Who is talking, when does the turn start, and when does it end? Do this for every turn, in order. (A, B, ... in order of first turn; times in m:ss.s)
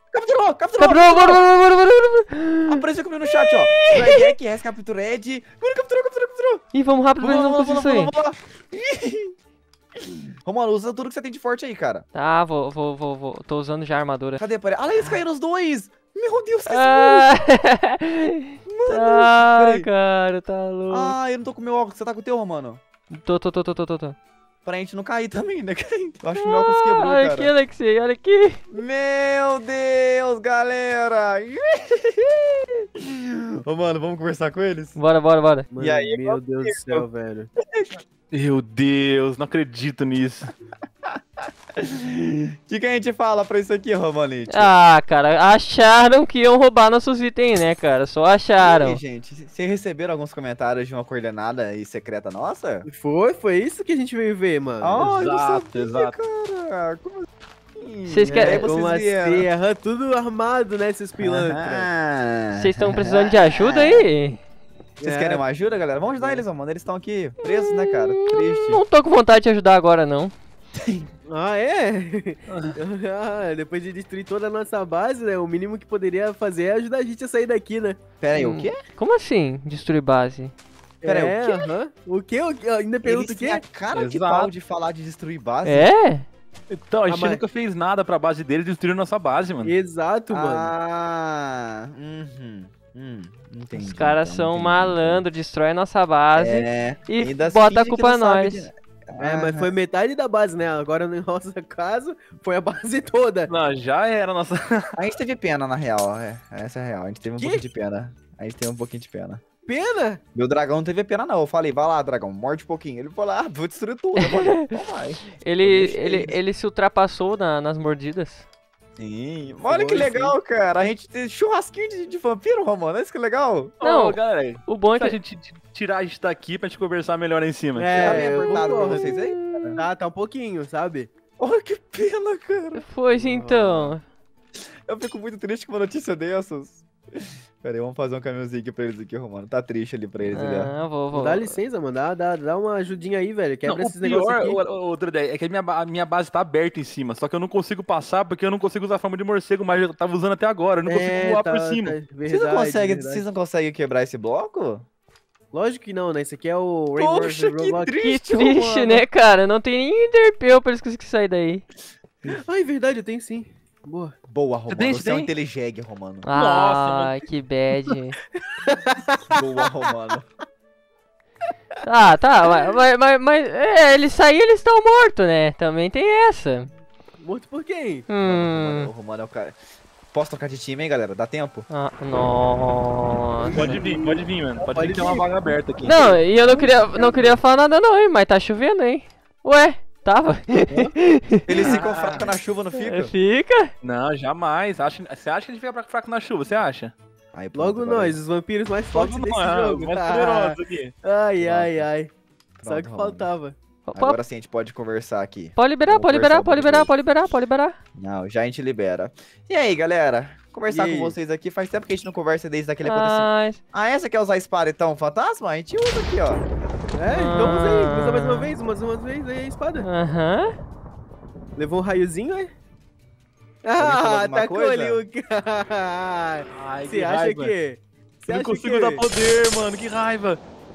0:00.1-0:01.4 A
0:00.8-0:04.3 B
0:02.7-0:06.6 A
0:06.7-0:08.1 B
0:07.2-0:09.3 A
0:10.0-0:12.0 A
0:12.1-0:14.4 B
0:14.4-0:17.3 A
0:16.7-0:21.1 B
0:18.7-0:19.9 A
0:20.9-0:22.8 A
0:23.1-0:24.2 B
0:24.6-0:27.5 A
0:26.4-0:28.6 B
0:28.7-0:35.0 A
0:35.0-0:35.7 B
0:35.7-0:37.5 C
0:35.8-0:37.0 A
0:37.6-0:38.0 A
0:38.3-0:40.5 D
0:41.1-0:44.7 A
0:44.5-0:49.0 B
0:48.6-0:52.9 A
0:52.9-0:55.1 C
0:54.8-0:59.5 A
0:55.0-0:56.2 D
0:58.1-0:58.7 B
0:58.3-1:01.9 C
1:01.2-1:04.1 A
1:02.5-1:04.4 B
1:05.0-1:05.4 C
1:05.0-1:08.8 A
1:06.2-1:06.4 C
1:07.5-1:10.3 B
1:10.8-1:11.1 A
1:11.3-1:18.0 C
1:12.5-1:12.8 D
1:18.2-1:18.8 A
1:18.4-1:20.5 B
1:21.0-1:23.6 C
1:21.0-1:21.7 A
1:23.0-1:25.9 A
1:23.9-1:24.5 D
1:25.6-1:26.3 B
1:26.7-1:29.8 D
1:27.1-1:27.4 C
1:29.6-1:30.7 C
1:30.3-1:35.2 A
1:33.7-1:38.7 B
1:36.4-1:39.7 A
1:39.2-1:43.5 C
1:43.5-1:44.8 D
1:45.0-1:49.4 A
1:47.4-1:47.6 C
1:49.7-1:50.2 C
1:50.4-1:56.4 A
1:54.2-1:54.7 B
1:55.4-1:58.5 B
1:59.0-2:03.7 A
1:59.7-2:00.3 C
2:03.8-2:08.2 D
2:03.8-2:05.2 B
2:07.8-2:09.1 C
2:08.0-2:09.8 A
2:08.5-2:09.8 B
2:09.8-2:11.1 C
2:11.4-2:12.9 A
2:12.8-2:14.0 B
2:13.1-2:13.4 C
2:13.4-2:13.9 A
2:14.6-2:20.7 A
2:20.2-2:21.6 B
2:21.1-2:24.6 C
2:23.7-2:32.0 D
2:30.8-2:33.2 C
2:32.3-2:34.9 A
2:35.5-2:38.0 C
2:37.0-2:39.0 A
2:38.0-2:41.6 B
2:42.2-2:44.2 C
2:44.3-2:46.3 A
2:44.7-2:45.3 D
2:46.2-2:48.2 B
2:46.4-2:47.2 D
2:48.4-2:49.4 C
2:49.3-2:50.3 A
2:51.8-2:56.7 B
2:57.2-2:58.1 C
2:58.1-2:58.9 B
2:58.2-2:59.6 A
3:00.1-3:01.7 A
3:01.7-3:03.8 B
3:03.5-3:05.5 C
3:03.5-3:06.2 D
3:05.8-3:11.5 B
3:05.9-3:06.2 A
3:06.6-3:07.2 C
3:11.4-3:13.1 A
3:11.6-3:12.0 D
3:11.7-3:12.3 C
3:12.8-3:13.7 B
3:13.8-3:16.9 D
3:17.3-3:18.2 A
3:17.5-3:22.1 C
3:18.9-3:20.9 D
3:21.4-3:21.9 A
3:22.6-3:23.3 A
3:22.6-3:23.6 C
3:23.9-3:24.2 B
3:24.0-3:26.9 A
3:25.6-3:27.8 B
3:28.0-3:36.4 A
3:30.7-3:31.2 C
3:32.8-3:33.6 B
3:36.9-3:39.9 C
3:37.1-3:38.5 B
3:39.8-3:40.6 B
3:41.6-3:42.5 C
3:43.6-3:49.0 C
3:43.8-3:45.0 A
3:46.5-3:47.6 D
3:48.3-3:50.4 D